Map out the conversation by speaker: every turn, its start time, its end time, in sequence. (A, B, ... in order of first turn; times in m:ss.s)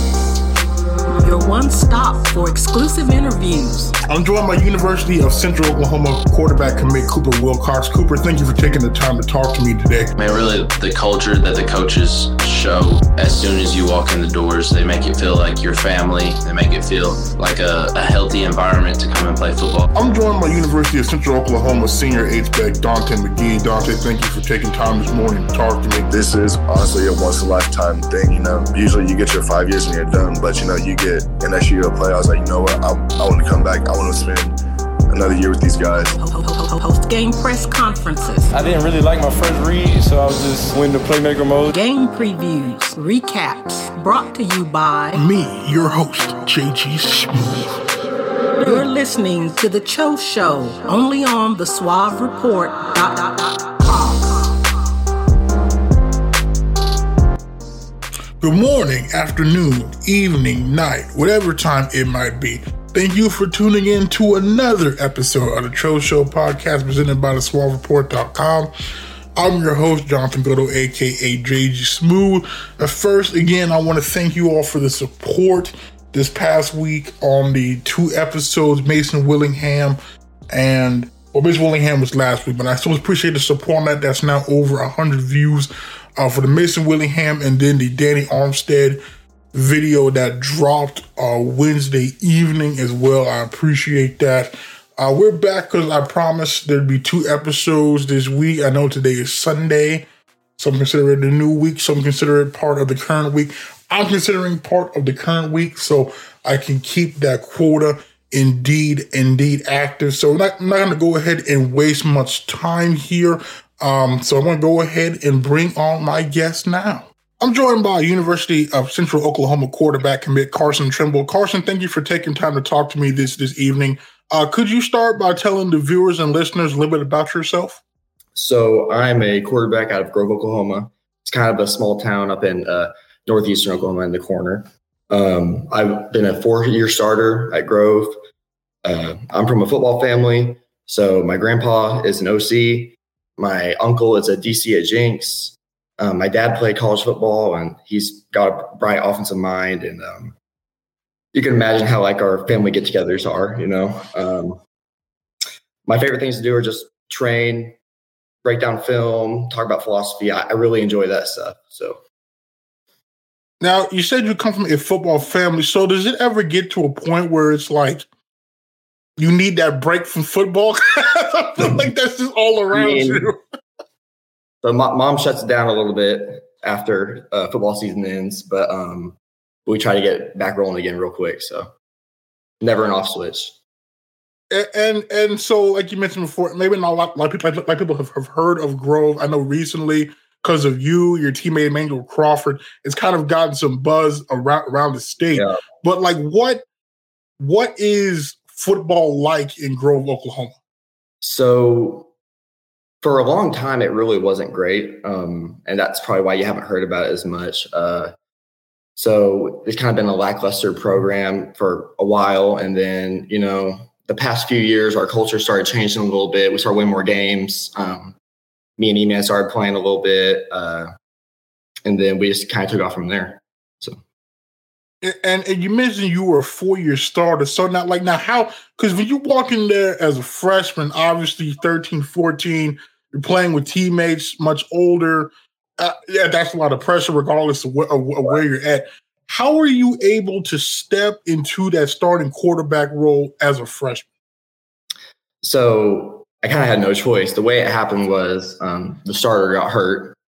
0:01.2-0:04.0 A
0:04.1-0:10.1 B
0:10.2-0:19.9 C
0:20.0-0:26.2 B
0:26.1-0:34.6 D
0:35.1-0:36.2 D
0:36.2-0:38.5 A
0:38.5-0:41.8 E
0:41.7-0:45.2 A
0:45.1-0:47.5 B
0:48.6-0:54.2 A
0:58.4-1:08.7 B
1:09.4-1:20.0 B
1:20.5-1:29.0 B
1:29.5-1:40.1 B
1:40.6-2:07.8 B
2:08.4-2:18.2 F
2:18.8-2:30.4 F
2:31.3-2:34.6 F
2:35.9-2:37.8 F
2:38.4-2:42.0 F
2:43.6-2:48.1 B
2:49.2-2:53.4 B
2:52.7-2:53.3 F
2:54.6-3:01.7 F
3:02.6-3:03.6 F
3:04.5-3:16.6 B
3:17.4-3:20.6 B
3:21.2-3:22.1 F
3:23.0-3:28.1 F
3:29.0-3:38.2 F
3:38.8-3:40.9 F
3:41.8-3:44.0 F
3:45.0-4:04.1 B
4:05.4-4:10.2 F